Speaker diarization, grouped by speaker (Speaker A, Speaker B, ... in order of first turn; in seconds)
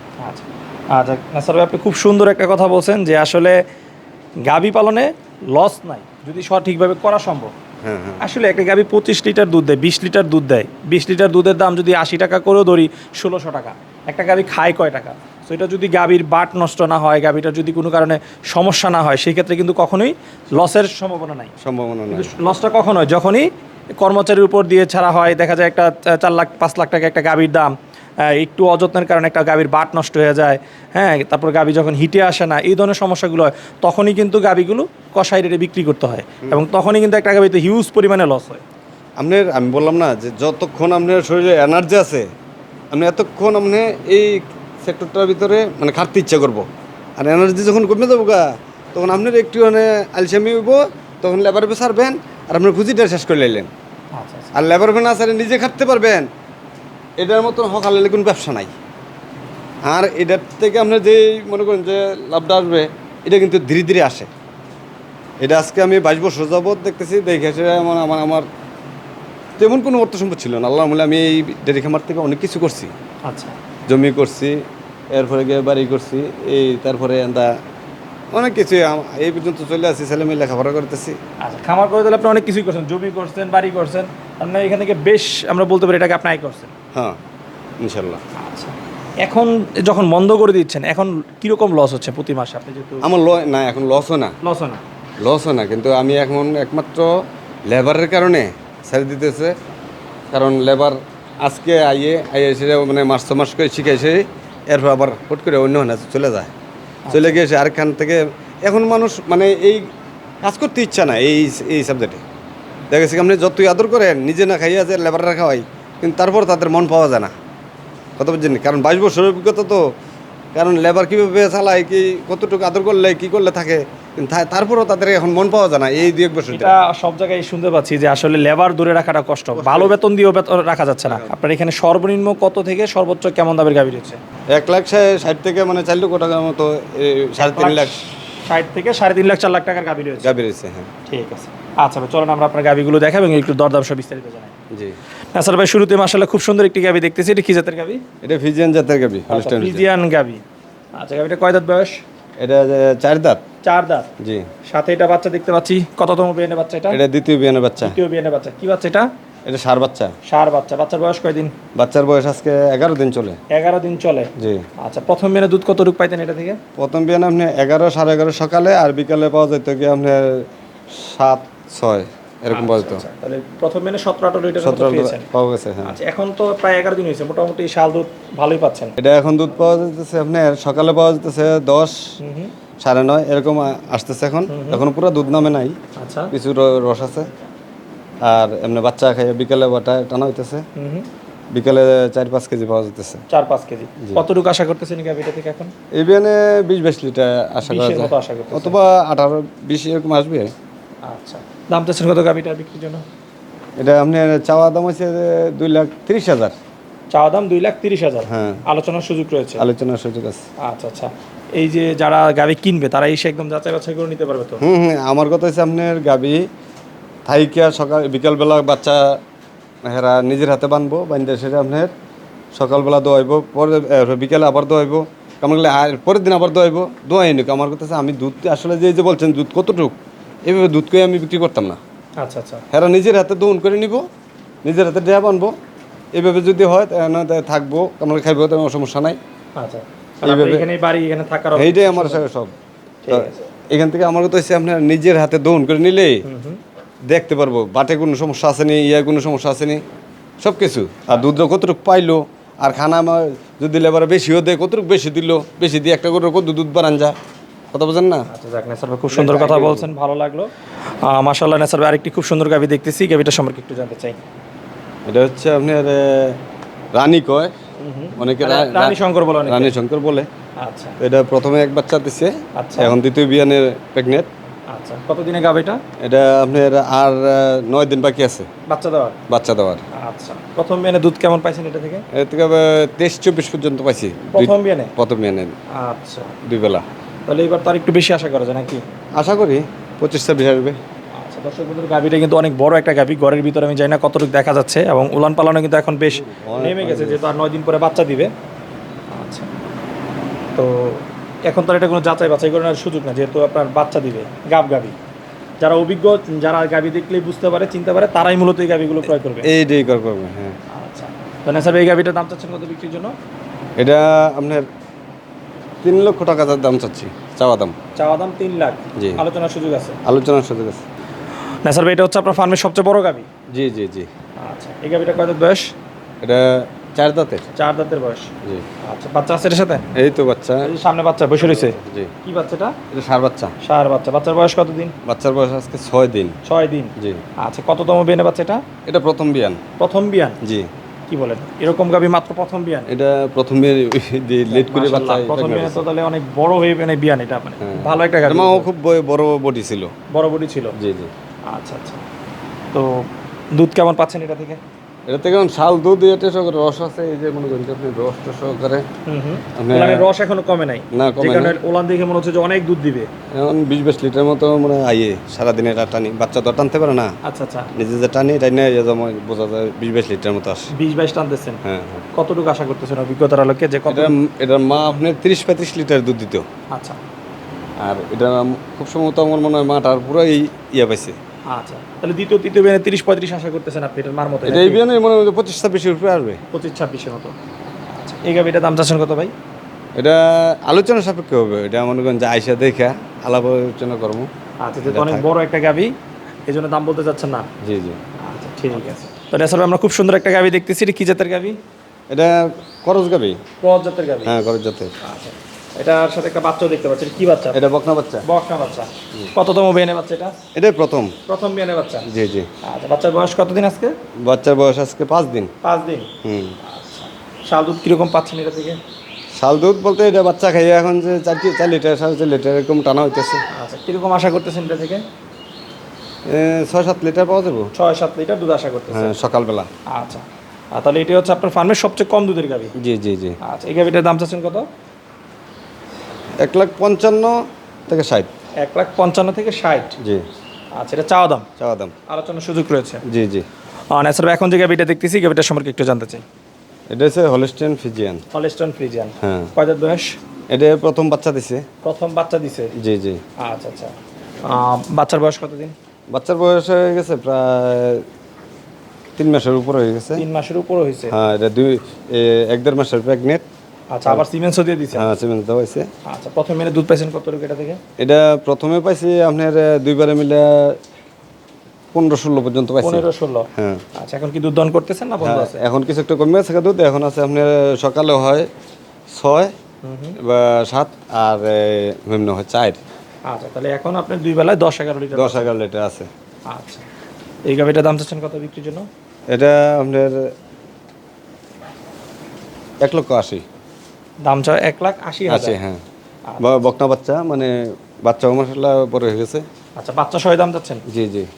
Speaker A: 0.2-3.6, 4.4-7.5, 8.2-21.5, 22.1-38.6, 54.1-54.5, 73.3-73.6, 81.4-86.7, 88.4-93.1, 94.4-94.8, 107.1-107.4, 126.5-134.2, 137.4-140.3, 141.1-144.5, 145.3-148.0, 149.3-150.4, 150.9-152.0, 153.6-154.1, 154.7-157.0, 157.8-159.1, 160.3-161.5, 163.5-166.6, 172.5-175.3, 175.8-178.9, 182.2-182.5, 184.5-184.8, 186.0-186.3, 190.8-191.1, 193.3-195.7, 197.7-198.8, 201.0-203.0, 207.1-209.6, 210.6-214.6, 232.2-232.7, 239.6-242.2, 243.1-243.5, 246.3-246.6, 258.3-264.2, 267.8-269.7, 270.6-271.0, 272.6-273.0, 274.7-275.8, 278.7-279.2, 279.9-282.1, 284.3-284.9, 285.7-286.3, 287.3-288.8, 291.2-298.3, 299.1-299.5, 300.6-305.0, 305.6-309.5, 310.7-313.1, 318.0-320.0, 321.6-323.3, 324.4-325.7, 327.6-328.3, 328.8-329.9, 330.6-332.8, 333.6-334.9, 336.4-338.6, 339.8-340.4, 341.1-342.9, 344.5-348.7, 350.1-350.7, 351.5-352.0, 352.7-354.6, 359.1-363.1, 367.2-367.7, 370.8-371.6, 372.1-374.1, 376.7-377.0, 381.5-384.8, 386.5-387.4, 387.9-389.3, 394.6-396.0, 396.5-397.5, 398.2-401.6, 403.6-404.3, 405.0-407.6, 408.2-410.4, 411.3-412.1, 412.6-414.0, 415.6-416.1, 416.6-418.8, 423.5-425.1, 427.8-429.2, 429.9-432.7, 433.4-434.7, 438.6-440.0, 440.8-441.5, 442.1-443.0, 443.9-446.2, 448.3-450.2, 451.8-452.7, 453.4-455.8, 460.2-461.1, 463.9-465.1, 466.1-467.8, 472.8-475.6, 479.8-480.2, 483.3-485.5, 486.5-486.9, 487.5-488.9, 494.2-495.6, 496.3-496.6, 499.8-500.8
Speaker B: 7.8-8.2, 21.6-22.3, 39.2-42.3, 42.9-46.7, 47.2-53.7, 54.5-56.3, 57.2-58.7, 59.9-64.3, 65.4-68.5, 69.6-72.9, 73.9-74.6, 75.1-77.5, 78.3-81.2, 87.8-88.2, 93.0-94.3, 95.2-97.1, 97.7-99.5, 100.3-106.5, 107.1-109.8, 110.4-112.2, 112.9-117.3, 118.2-119.8, 120.5-126.8, 129.5-129.9, 131.1-131.3, 134.5-138.0, 140.2-140.9, 148.2-149.8, 152.4-153.4, 154.2-154.5, 156.9-158.0, 159.5-160.1, 161.8-163.4, 164.4-164.6, 166.8-173.0, 174.6-176.0, 179.0-182.1, 182.8-185.8, 186.3-187.3, 188.2-190.6, 191.5-193.2, 194.0-194.2, 195.9-200.5, 203.8-206.5, 208.3-208.6, 209.6-210.4, 214.6-216.4, 217.3-219.2, 219.8-221.9, 222.6-231.8, 232.7-234.1, 234.7-235.5, 236.1-239.2, 240.2-240.7, 241.6-242.5, 243.1-246.2, 247.1-249.8, 250.4-257.1, 257.7-258.3, 259.1-259.9, 265.1-266.4, 266.9-267.5, 268.2-270.3, 271.0-274.3, 276.0-278.5, 279.3-279.8, 282.1-285.5, 286.4-286.9, 289.2-290.8, 296.1-297.3, 309.1-310.6, 313.8-314.7, 315.8-317.8, 319.0-319.2, 320.1-320.8, 323.5-324.1, 326.2-327.5, 329.9-330.7, 331.4-332.1, 332.9-333.5, 335.1-336.4, 338.9-339.6, 340.4-340.7, 342.9-345.8, 347.6-349.9, 350.8-351.1, 355.1-358.9, 359.6-360.1, 360.9-361.6, 363.3-367.1, 367.7-370.7, 371.6-372.1, 373.9-376.4, 377.8-381.2, 384.4-386.4, 390.0-394.3, 394.9-395.2, 397.6-398.0, 402.1-403.4, 404.2-404.9, 407.5-408.2, 410.6-411.1, 412.1-412.5, 414.2-415.5, 416.2-416.6, 419.4-423.4, 426.3-427.7, 428.9-429.7, 432.8-433.4, 436.4-437.4, 437.9-438.3, 440.0-440.2, 441.6-441.9, 443.1-443.5, 446.9-448.2, 449.2-449.5, 450.5-451.6, 452.8-453.2, 456.1-458.1, 459.2-460.2, 461.1-463.4, 464.9-465.9, 468.0-470.8, 471.9-473.8, 475.2-478.5, 479.1-479.5, 480.2-482.8, 485.1-486.1, 489.3-490.2, 492.8-493.4, 495.3-495.8, 496.4-499.4, 500.9-501.3